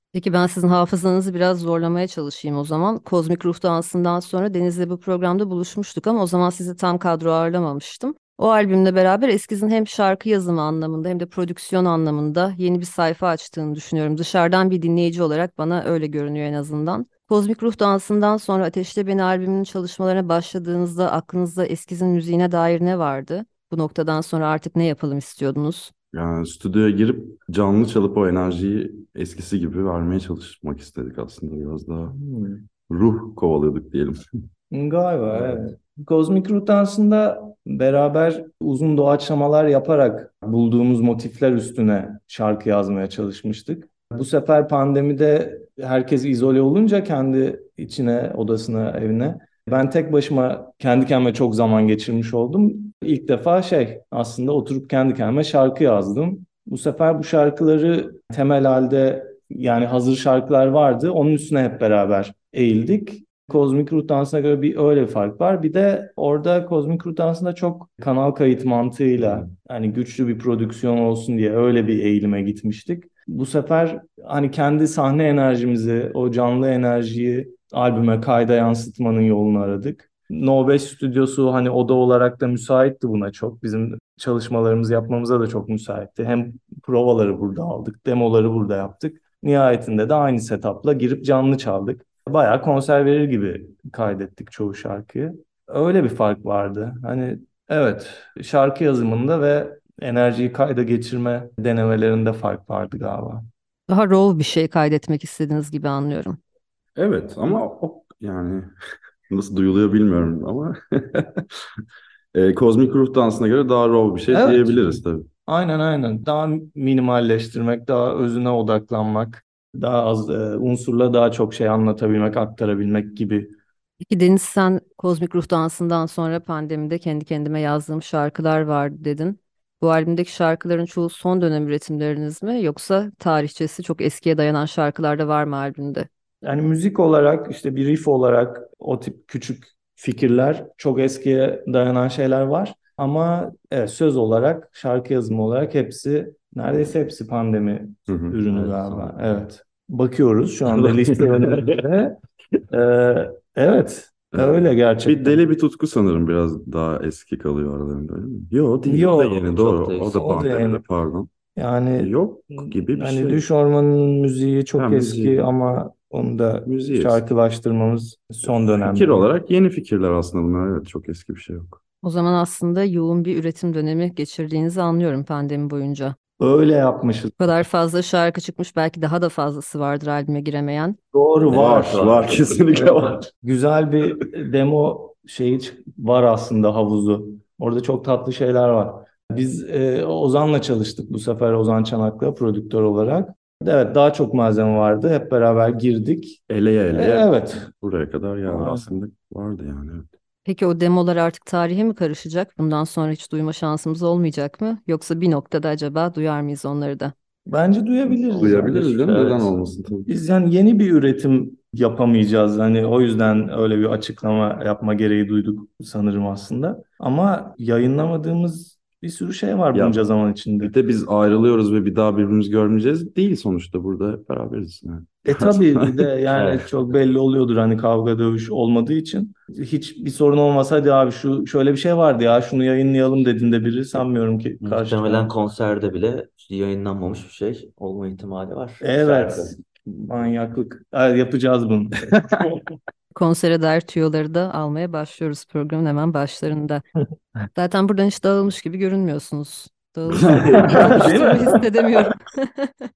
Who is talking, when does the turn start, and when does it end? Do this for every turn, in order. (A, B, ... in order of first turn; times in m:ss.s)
0:00.1-0:25.9 A
0:26.1-0:32.2 B
0:32.1-0:32.6 C
0:32.9-0:34.2 B
0:34.7-1:43.5 C
1:09.2-1:09.5 D
1:43.9-1:46.4 A
1:47.0-1:48.7 B
1:49.3-1:51.6 B
1:52.3-1:55.3 B
1:54.3-2:03.6 C
2:04.0-2:16.1 A
2:16.4-2:32.2 C
2:28.1-2:28.4 B
2:28.5-2:29.4 D
2:30.7-2:31.8 D
2:32.7-2:35.4 C
2:34.4-2:41.3 B
2:38.9-2:39.5 C
2:39.4-2:40.4 D
2:40.1-2:40.8 C
2:41.6-2:49.3 C
2:42.0-2:43.4 B
2:44.8-2:45.4 B
2:46.7-2:47.2 B
2:48.4-2:51.8 B
2:52.0-2:56.2 A
2:56.4-2:57.4 C
2:57.4-3:01.0 A
3:01.1-3:17.7 C
3:01.5-3:02.8 D
3:01.5-3:03.2 B
3:16.5-3:20.1 B
3:18.5-3:19.0 C
3:20.5-3:27.1 A
3:27.5-3:40.7 C
3:28.1-3:30.2 B
3:39.7-3:40.0 B
3:40.6-3:46.1 B
3:45.3-3:55.3 C
3:46.3-3:46.7 D
3:54.6-3:59.6 D
3:58.8-4:02.1 C
4:03.1-4:06.8 A
4:07.5-4:12.7 A
4:10.1-4:11.2 B
4:10.3-4:11.1 D
4:10.6-4:11.6 C